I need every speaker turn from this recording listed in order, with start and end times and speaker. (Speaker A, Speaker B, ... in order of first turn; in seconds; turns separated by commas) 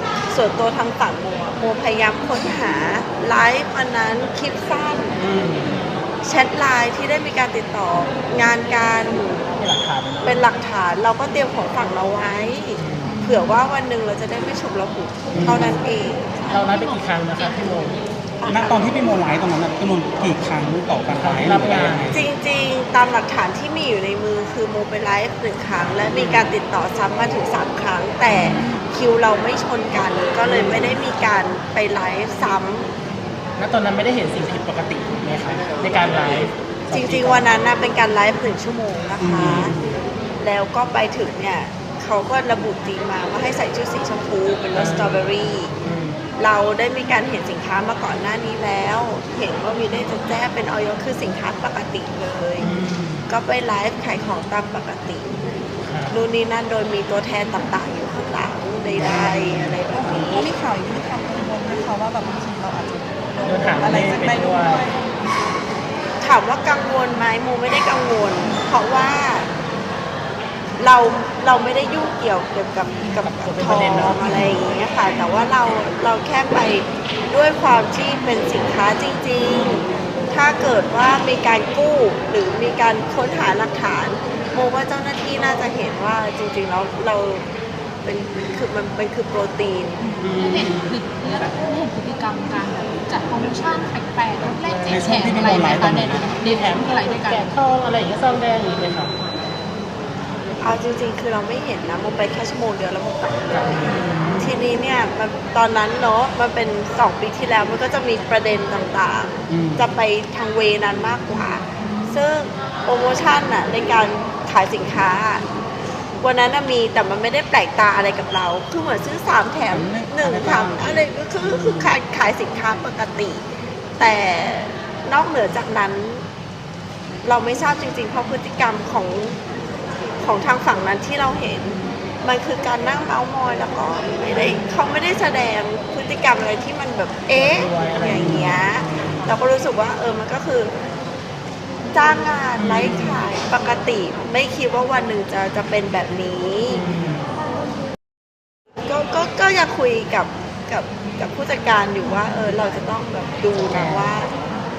Speaker A: 0.3-5.2, Speaker B: 5.2-6.0, Speaker A: 6.2-9.5, Speaker B: 9.6-10.4, Speaker A: 10.2-16.7, Speaker B: 12.8-13.2, Speaker C: 13.1-13.4, Speaker B: 15.3-15.8, Speaker D: 15.4-15.7, Speaker C: 16.5-17.9, Speaker B: 16.5-18.0, Speaker A: 18.4-18.9, Speaker D: 18.5-22.2, Speaker B: 21.2-22.1, Speaker A: 22.1-32.9, Speaker B: 25.8-26.5, Speaker E: 28.5-28.9, Speaker B: 33.6-37.5, Speaker A: 36.9-39.7, Speaker D: 39.2-39.7, Speaker B: 39.4-39.9, Speaker A: 40.4-45.7, Speaker B: 44.7-46.2, Speaker A: 46.4-52.7, Speaker B: 52.6-53.3, Speaker A: 53.3-55.5, Speaker B: 55.8-56.2, Speaker A: 56.1-60.5, Speaker B: 59.0-59.8, Speaker E: 59.9-65.0, Speaker B: 63.4-64.8, Speaker A: 66.2-69.5, Speaker A: 70.8-87.5, Speaker B: 73.2-74.5, Speaker A: 88.0-90.1, Speaker E: 90.0-90.3, Speaker B: 90.2-90.9, Speaker C: 90.4-97.5, Speaker B: 94.4-99.1, Speaker D: 94.9-96.2, Speaker A: 100.6-115.5, Speaker B: 103.5-104.4, Speaker D: 109.5-109.9, Speaker A: 116.2-123.4, Speaker D: 119.7-121.9, Speaker A: 124.0-126.2, Speaker A: 127.2-129.4, Speaker A: 130.2-140.7, Speaker B: 137.3-139.4, Speaker A: 141.9-146.8, Speaker B: 142.6-143.2, Speaker B: 146.7-147.3, Speaker A: 148.8-154.3, Speaker B: 153.7-154.1